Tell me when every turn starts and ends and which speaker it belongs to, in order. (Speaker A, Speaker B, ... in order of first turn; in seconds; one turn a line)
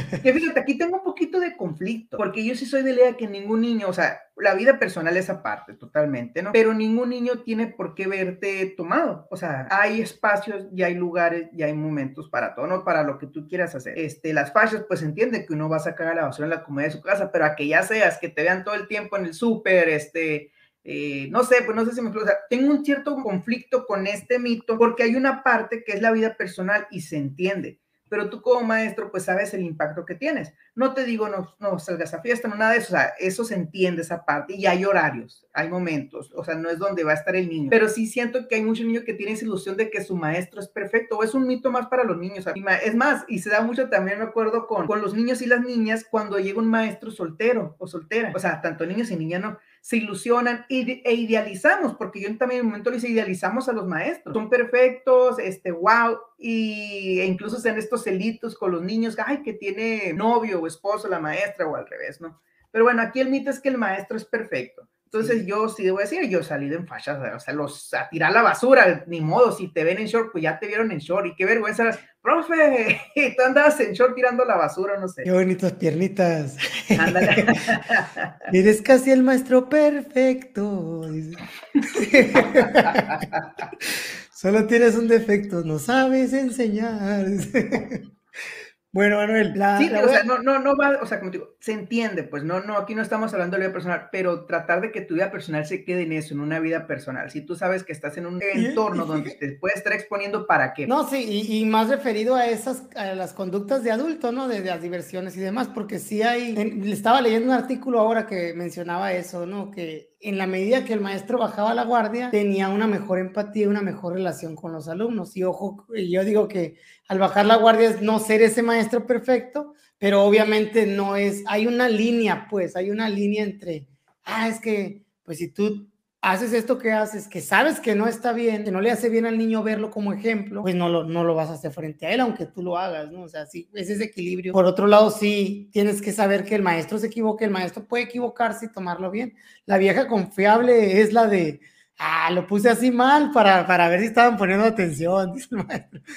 Speaker A: 0.2-75.3
Speaker B: 65.1-65.5
Speaker B: 75.3-77.6
Speaker A: 76.9-78.5
Speaker B: 78.5-83.2
Speaker A: 82.4-83.5
Speaker B: 83.8-88.0
Speaker B: 88.9-90.2
Speaker A: 89.8-100.9
Speaker B: 98.5-99.3
Speaker B: 100.9-146.0